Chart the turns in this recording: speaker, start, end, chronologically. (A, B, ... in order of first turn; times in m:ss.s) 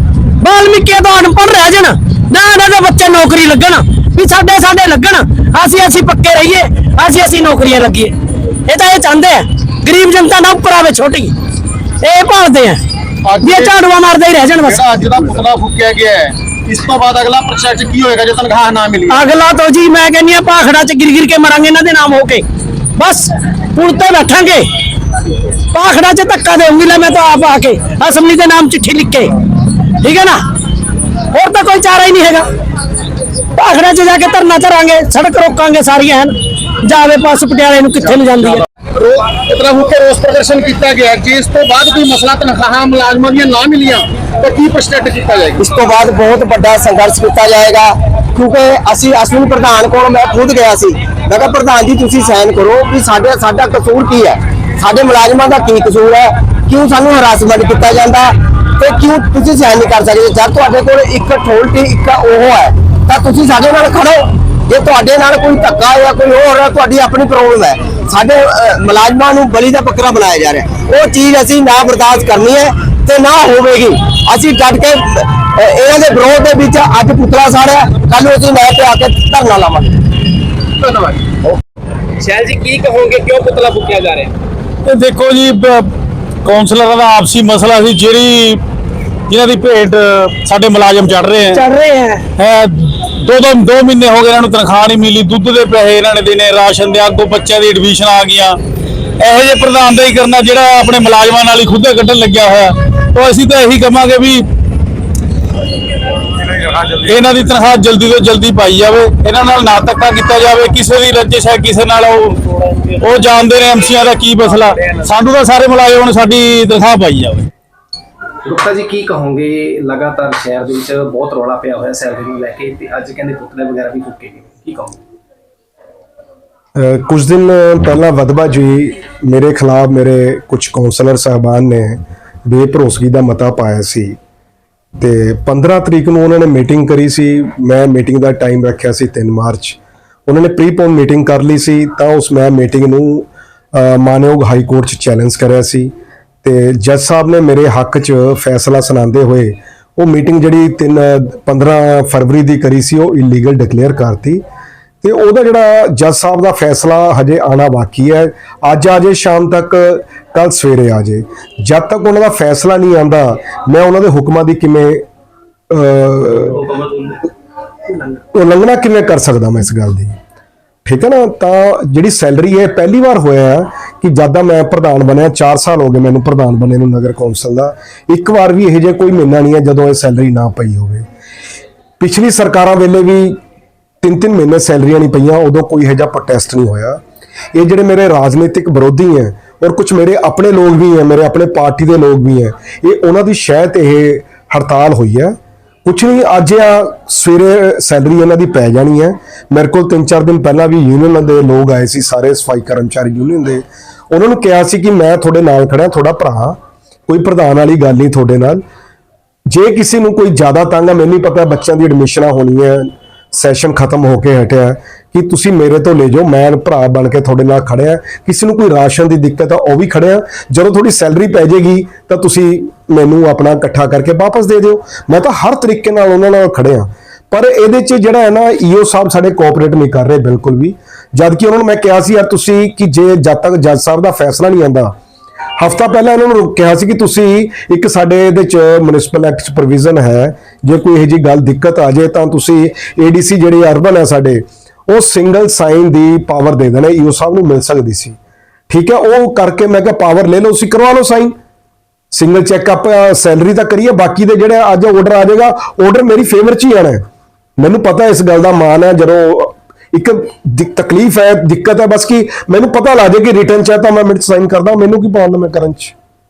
0:00.4-0:08.1 A
0:08.7-0:11.3 A
0:12.0-0:12.8 A
0:13.3-0:13.8 B
0:13.4-0:14.9 A
0:14.7-0:19.2 B
0:19.1-0:22.4 A
0:23.0-0:24.7 A
0:25.7-0:29.4 A
0:30.0-0:30.4 A
0:31.3-0:32.5 A
0:33.6-0:38.6 A
0:39.0-0:45.6 B
0:45.6-1:20.0 C
1:20.8-1:21.2 B
1:22.2-1:24.3 D
1:24.8-1:25.9 E
1:26.4-1:28.6 E
1:29.3-1:31.6 E
1:31.5-1:32.2 A
1:32.4-1:38.6 E
1:39.2-1:44.4 E
1:46.9-1:52.4 E
1:53.0-1:57.5 E
1:58.4-2:05.0 F
2:06.8-2:14.2 G
2:15.0-2:25.9 G
2:26.4-2:34.4 G
2:35.0-2:45.0 G
2:45.7-2:46.6 G
2:46.4-2:47.2 F
2:47.9-2:48.2 F
2:48.4-2:50.2 G
2:50.8-3:01.0 G
3:02.0-3:03.4 G
3:04.0-3:07.0 G
3:07.6-3:28.6 G
3:29.5-3:54.9 G
3:55.6-4:08.2 G
4:08.7-4:11.3 G
4:12.1-4:17.0 G
4:17.6-4:25.9 G